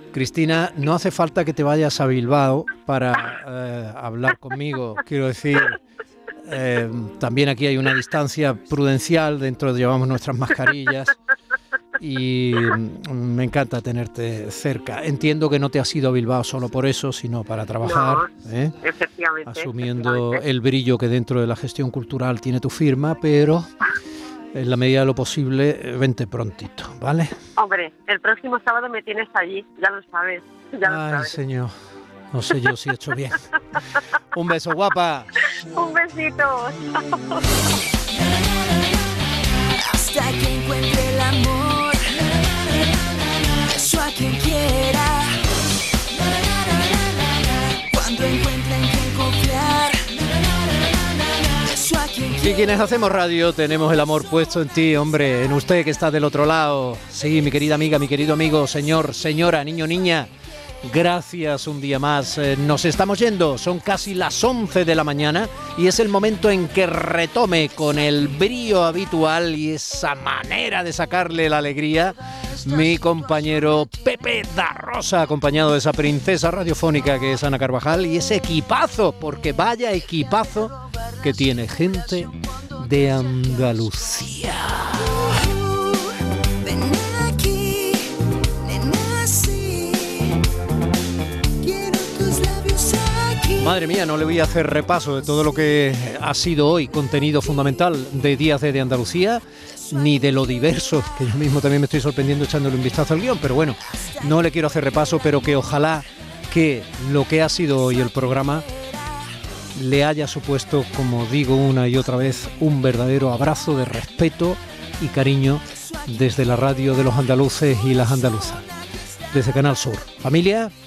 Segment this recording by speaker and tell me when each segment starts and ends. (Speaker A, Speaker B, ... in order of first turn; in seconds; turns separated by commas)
Speaker A: 0.1-5.8, Speaker A: 6.4-11.2, Speaker A: 12.0-18.7, Speaker B: 17.8-18.3, Speaker B: 18.8-20.4, Speaker A: 19.4-23.7, Speaker A: 24.5-27.4, Speaker B: 27.6-31.4, Speaker A: 30.8-31.7, Speaker A: 32.3-33.4, Speaker A: 34.3-35.4, Speaker B: 35.6-37.4, Speaker C: 39.8-42.4, Speaker C: 43.4-45.4, Speaker C: 46.5-50.2, Speaker C: 50.8-52.4, Speaker A: 52.3-60.3, Speaker A: 60.8-85.2, Speaker C: 85.4-90.4, Speaker C: 91.5-93.6, Speaker A: 93.5-108.7, Speaker A: 109.8-118.7, Speaker A: 119.3-120.7